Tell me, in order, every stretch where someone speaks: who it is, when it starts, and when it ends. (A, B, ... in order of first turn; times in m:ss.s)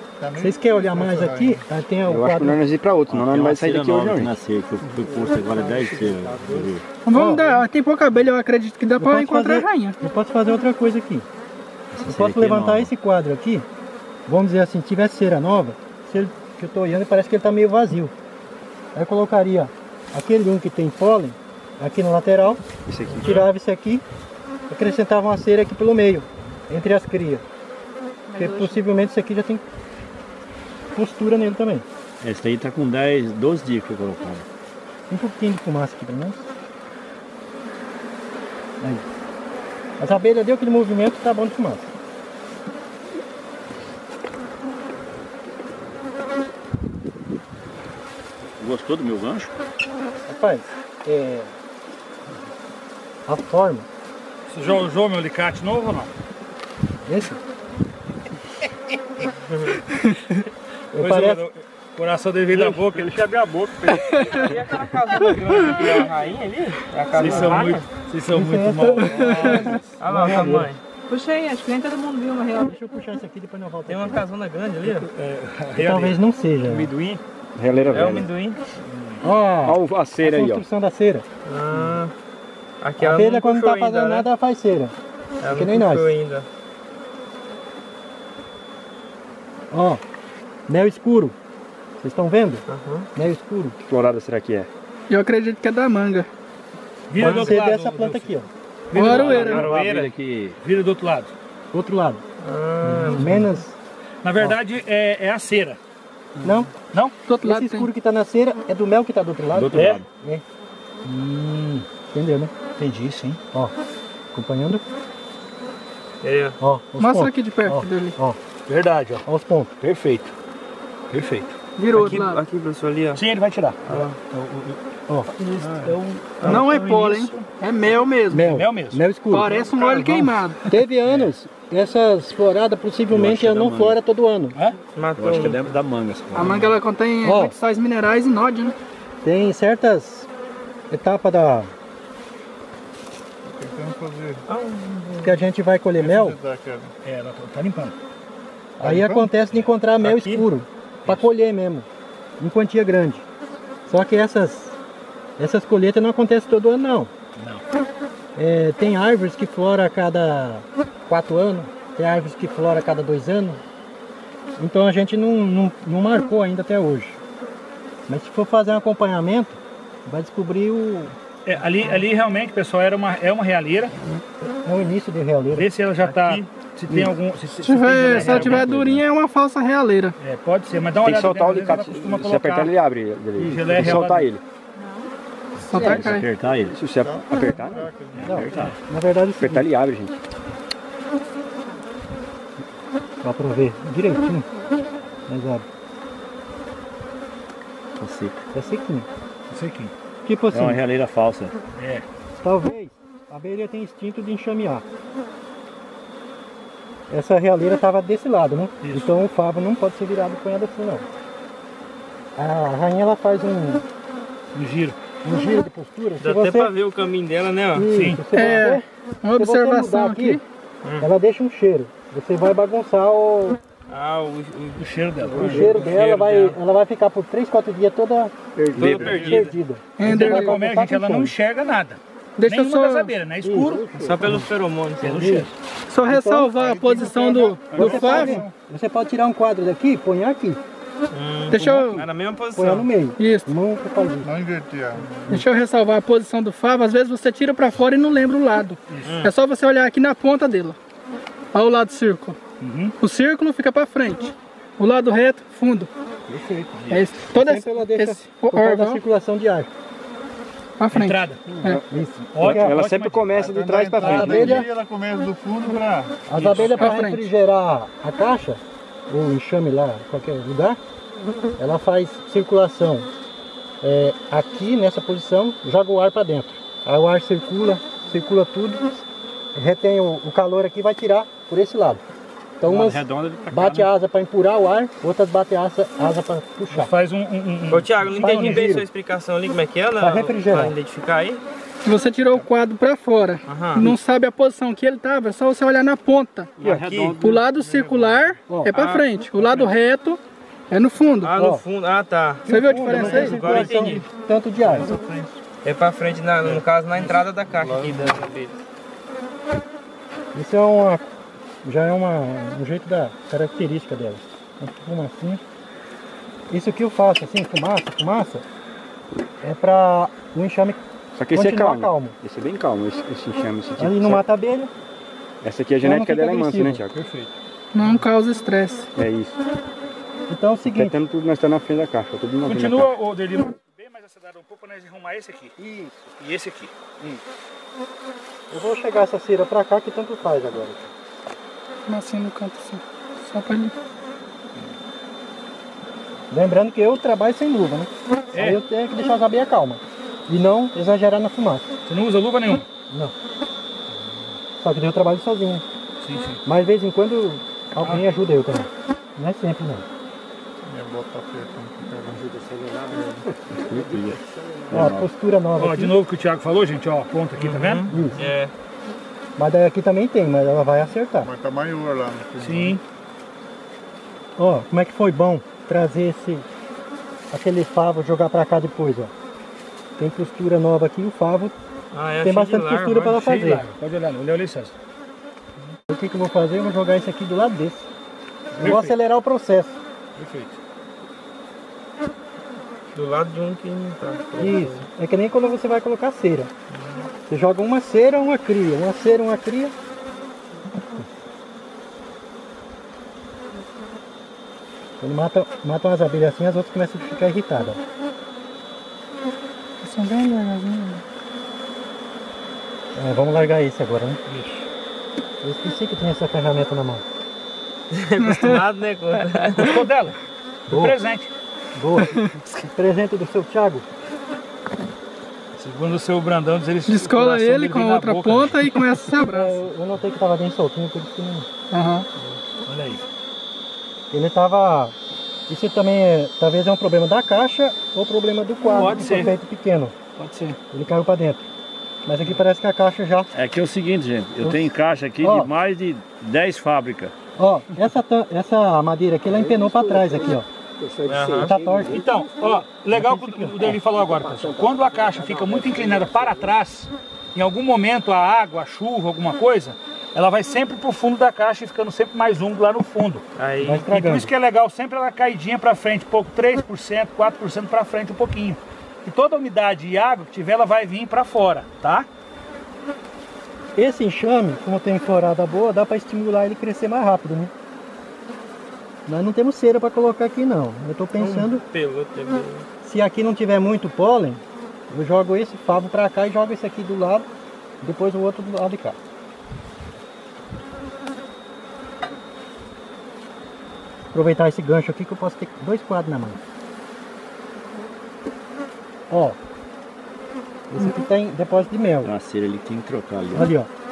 0:00.2-0:01.6 A
0:00.4-0:02.6 B
0:02.0-0:04.4 C
0:03.1-0:06.8 D
0:04.8-0:06.7 A
0:07.0-0:10.0 E
0:07.1-0:07.6 B
0:09.0-0:11.2 B
0:11.9-0:12.9 D
0:12.1-0:13.7 B
0:14.3-0:18.1 B
0:18.9-0:22.6 B
0:22.9-0:23.5 C
0:23.1-0:23.4 F
0:23.2-0:24.0 B
0:24.7-0:27.4 B
0:28.3-0:28.8 G
0:28.3-0:29.6 B
0:30.9-0:31.9 B
0:32.2-0:34.4 D
0:35.1-0:36.5 B
0:40.0-0:41.9 B
0:48.6-0:49.5 D
0:50.3-0:51.5 B
0:53.2-0:53.9 B
0:54.5-0:56.1 H
0:57.1-0:57.4 B
0:59.5-0:59.8 F
1:00.9-1:03.3 H
1:00.9-1:01.4 B
1:02.5-1:02.9 C
1:03.8-1:04.6 A
1:03.9-1:04.4 E
1:04.3-1:07.8 F
1:07.1-1:10.3 H
1:08.3-1:10.7 B
1:08.9-1:09.3 E
1:10.0-1:10.8 F
1:11.1-1:12.8 G
1:12.6-1:14.2 B
1:13.9-1:15.1 F
1:14.8-1:16.2 H
1:15.8-1:16.9 B
1:16.7-1:18.3 C
1:17.9-1:18.6 F
1:18.9-1:19.3 H
1:19.2-1:21.2 B
1:19.6-1:20.6 C
1:21.4-1:22.1 F
1:22.8-1:24.3 F
1:23.0-1:25.0 B
1:25.4-1:26.5 F
1:25.5-1:26.1 B
1:29.7-1:30.0 B
1:30.7-1:31.4 B
1:32.0-1:33.8 B
1:32.7-1:33.1 F
1:33.8-1:34.7 C
1:35.1-1:36.3 E
1:37.1-1:38.3 H
1:37.2-1:38.5 B
1:37.2-1:37.6 F
1:38.9-1:41.3 H
1:38.9-1:39.7 E
1:39.0-1:40.6 D
1:41.7-1:42.2 B
1:42.4-1:43.3 F
1:42.8-1:43.5 H
1:43.2-1:43.8 B
1:44.2-1:45.8 H
1:46.4-1:46.7 B
1:46.9-1:47.2 H
1:47.3-1:47.9 E
1:47.4-1:50.4 B
1:49.5-1:50.1 D
1:49.7-1:50.0 H
1:51.0-1:51.9 H
1:52.1-1:52.5 B
1:52.8-1:53.4 H
1:54.3-1:54.8 B
1:56.2-1:56.6 F
1:56.6-1:58.4 B
1:57.0-1:58.2 E
1:58.7-1:59.3 H
1:59.3-1:59.7 B
1:59.8-2:00.3 H
2:01.1-2:01.5 H
2:01.8-2:02.4 E
2:01.9-2:03.2 F
2:03.1-2:04.8 H
2:03.8-2:04.2 F
2:05.4-2:07.4 H
2:06.4-2:08.4 E
2:08.3-2:09.6 B
2:08.4-2:10.4 H
2:09.3-2:10.7 E
2:10.7-2:14.6 B
2:11.0-2:11.3 H
2:13.1-2:14.0 D
2:14.5-2:14.8 H
2:14.9-2:15.8 F
2:15.2-2:16.8 D
2:16.3-2:18.8 E
2:17.2-2:17.6 B
2:19.2-2:20.3 B
2:20.9-2:21.7 B
2:23.4-2:24.4 A
2:24.4-2:25.4 F
2:25.2-2:26.4 B
2:26.0-2:26.9 A
2:27.0-2:27.9 H
2:28.8-2:31.9 B
2:28.8-2:29.3 A
2:30.0-2:30.4 F
2:31.0-2:31.3 H
2:32.4-2:33.2 B
2:33.9-2:34.8 B
2:35.4-2:37.1 B
2:37.4-2:37.6 H
2:38.4-2:43.6 B
2:44.6-2:47.2 B
2:48.1-2:51.2 B
2:51.4-2:53.9 H
2:54.6-2:55.7 B
2:55.5-2:58.8 H
2:56.0-2:56.5 F
2:56.9-2:57.2 B
2:57.6-3:00.2 E
2:58.0-2:59.0 C
3:00.2-3:02.7 H
3:01.0-3:04.4 C
3:03.4-3:04.3 H
3:03.4-3:04.0 B
3:04.8-3:05.1 G
3:05.6-3:06.3 E
3:05.7-3:06.0 C
3:05.7-3:06.8 D
3:06.7-3:08.7 C
3:06.9-3:08.3 A
3:08.1-3:08.7 H
3:08.2-3:09.7 B
3:08.3-3:08.8 D
3:09.4-3:10.2 C
3:13.2-3:14.5 B
3:15.3-3:15.7 B
3:18.0-3:18.4 D
3:18.5-3:19.1 B
3:19.5-3:19.9 H
3:20.2-3:20.8 B
3:20.5-3:21.6 D
3:21.8-3:22.1 H
3:22.4-3:24.8 B
3:27.1-3:31.1 B
3:28.8-3:29.1 H
3:32.4-3:33.8 B
3:34.5-3:35.0 H
3:35.2-3:36.7 B
3:36.2-3:37.9 F
3:37.7-3:38.8 B
3:37.9-3:38.6 H
3:38.3-3:40.4 E
3:39.4-3:40.4 B
3:40.8-3:41.1 F
3:41.0-3:43.6 B
3:43.9-3:44.9 F
3:44.8-3:45.8 H
3:45.3-3:45.9 C
3:45.3-3:51.3 B
3:45.4-3:46.6 F
3:48.6-3:49.4 C
3:48.8-3:49.6 F
3:49.0-3:49.3 A
3:50.0-3:50.6 E
3:50.0-3:54.4 H
3:52.4-3:53.1 E
3:53.4-3:54.4 B
3:54.0-3:55.4 F
3:55.0-3:55.5 H
3:55.1-3:55.5 B
3:55.9-3:58.4 E
3:56.0-3:56.5 B
3:56.8-3:57.4 A
3:57.7-3:58.1 H
3:57.7-3:58.4 C
3:57.7-4:00.6 B
4:01.1-4:02.9 F
4:01.5-4:02.1 E
4:02.6-4:04.3 B
4:03.2-4:03.5 E
4:04.2-4:05.0 A
4:05.3-4:10.8 E
4:09.0-4:09.3 F
4:11.5-4:12.4 E
4:12.6-4:12.9 H
4:13.0-4:15.9 E
4:16.3-4:17.1 D
4:16.9-4:19.0 E
4:17.2-4:19.7 B
4:20.8-4:21.8 E
4:20.9-4:21.5 H
4:21.5-4:24.7 C
4:21.9-4:22.8 B
4:22.3-4:24.4 H
4:23.5-4:26.2 A
4:24.0-4:24.7 B
4:24.2-4:24.7 E
4:26.3-4:30.8 B
4:26.3-4:27.0 H
4:26.8-4:27.3 E
4:31.6-4:33.1 B
4:33.8-4:39.0 B
4:39.6-4:42.0 B
4:42.6-4:46.9 B
4:42.6-4:43.9 D
4:46.7-4:48.7 H
4:47.7-4:51.4 F
4:48.2-4:48.9 B
4:50.0-4:50.8 B
4:51.8-4:56.5 E
4:53.4-4:53.9 F
4:56.6-4:56.9 C
4:56.6-4:57.2 F
4:56.7-4:57.3 D
4:57.1-5:01.4 E
4:58.5-4:58.7 B
4:58.7-4:59.7 F
5:01.2-5:04.1 F
5:01.3-5:01.6 B
5:02.4-5:03.5 E
5:02.4-5:04.9 B
5:03.5-5:03.9 A
5:04.6-5:08.6 F
5:07.4-5:08.2 A
5:10.3-5:11.1 B
5:11.6-5:15.4 B
5:16.5-5:18.4 B
5:19.4-5:20.8 B
5:21.2-5:24.2 C
5:21.3-5:22.2 B
5:23.8-5:24.7 B
5:25.4-5:27.0 C
5:25.8-5:26.8 B
5:26.9-5:28.0 H
5:27.7-5:28.9 E
5:28.9-5:29.4 C
5:30.3-5:31.0 B
5:30.6-5:32.9 C
5:32.4-5:35.5 H
5:35.6-5:36.1 B
5:36.2-5:37.2 H
5:38.5-5:40.9 B
5:41.9-5:43.7 E
5:46.3-5:51.7 B
5:48.3-5:48.6 H
5:51.8-5:52.6 H
5:54.6-5:55.6 B
5:56.0-5:56.4 H
5:56.4-5:59.8 B
6:00.6-6:02.2 A
6:02.2-6:04.9 C
6:03.6-6:05.1 D
6:04.7-6:06.0 B
6:05.6-6:07.8 H
6:07.4-6:08.5 F
6:07.9-6:08.2 B
6:09.4-6:11.3 B
6:11.2-6:12.8 A
6:12.4-6:12.8 H
6:14.4-6:16.5 B
6:17.3-6:19.1 B
6:20.0-6:21.5 B
6:21.9-6:23.2 F
6:22.2-6:23.6 B
6:23.2-6:24.7 H
6:25.9-6:27.9 B
6:28.5-6:29.0 H
6:28.6-6:29.8 B
6:30.2-6:30.6 H
6:32.9-6:34.8 F
6:34.4-6:36.5 B
6:36.7-6:37.1 F
6:37.3-6:39.7 B
6:45.0-6:47.8 B
6:49.8-6:51.0 E
6:52.9-6:54.2 B
6:54.3-6:54.6 H
6:55.4-6:57.0 B
6:57.9-6:59.8 F
6:58.2-6:58.6 E
6:59.6-7:01.3 H
7:00.7-7:01.0 B
7:01.8-7:03.8 B
7:05.6-7:09.1 H
7:06.8-7:09.6 E
7:09.3-7:11.5 B
7:11.7-7:12.1 E
7:12.6-7:13.0 H
7:14.1-7:14.9 B
7:15.5-7:19.9 B
7:18.8-7:19.3 H
7:20.2-7:20.6 E
7:20.7-7:21.4 B
7:22.0-7:23.3 B
7:23.3-7:27.1 D
7:24.4-7:25.5 B
7:27.4-7:30.5 B
7:29.3-7:30.3 C
7:30.8-7:32.0 C
7:31.1-7:31.6 F
7:31.4-7:32.0 B
7:31.8-7:43.2 H
7:32.9-7:33.8 B
7:34.1-7:36.4 C
7:43.3-7:43.9 F
7:43.6-7:44.3 B
7:43.9-7:52.1 H
7:53.8-7:57.5 B
7:59.1-8:01.6 B
8:01.2-8:02.6 F
8:02.8-8:07.3 B
8:07.8-8:09.0 B
8:14.1-8:16.4 B
8:19.1-8:19.4 B
8:20.7-8:22.1 B
8:22.0-8:23.5 D
8:23.3-8:23.7 B